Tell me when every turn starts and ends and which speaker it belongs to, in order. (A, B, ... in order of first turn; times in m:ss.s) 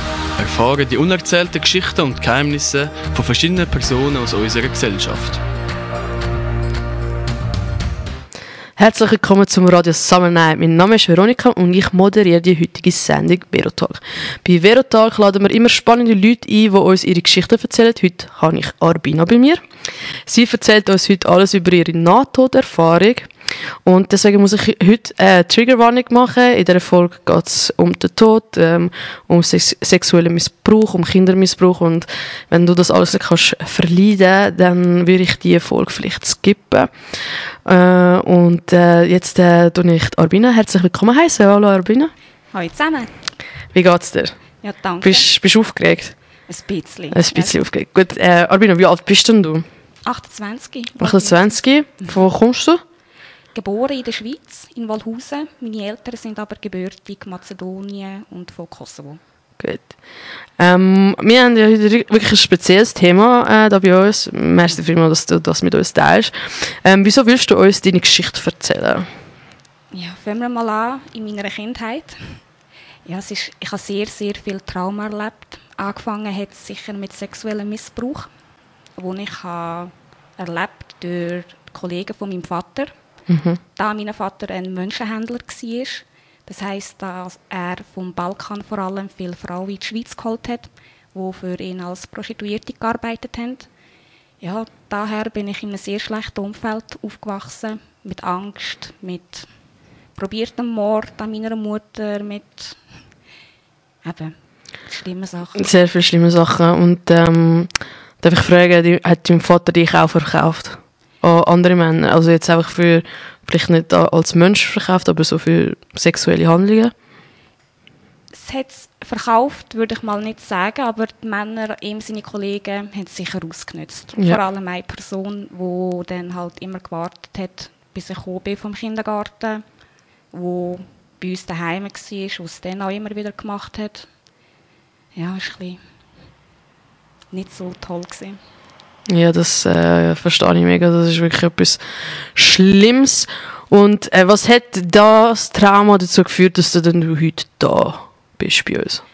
0:00.4-0:05.4 A
0:08.8-0:42.1 B
0:42.5-0:43.1 C
0:43.7-0:44.4 B
0:44.6-0:45.3 C
0:45.0-0:46.2 B
0:46.5-0:47.6 C
0:47.1-0:49.6 B
0:50.0-0:52.1 C
0:51.0-0:52.8 B
0:53.5-0:59.2 C
0:59.6-1:00.0 B
1:00.6-1:09.1 B
1:09.9-1:12.4 C
1:13.0-1:18.3 C
1:19.0-1:22.9 C
1:23.3-1:23.6 B
1:23.7-1:33.7 C
1:34.4-1:39.5 C
1:40.2-1:42.8 C
1:44.0-1:45.6 C
1:45.6-1:56.9 B
1:58.3-2:09.6 C
2:10.3-2:14.1 C
2:15.1-2:15.8 C
2:17.3-2:18.4 C
2:19.1-2:29.0 B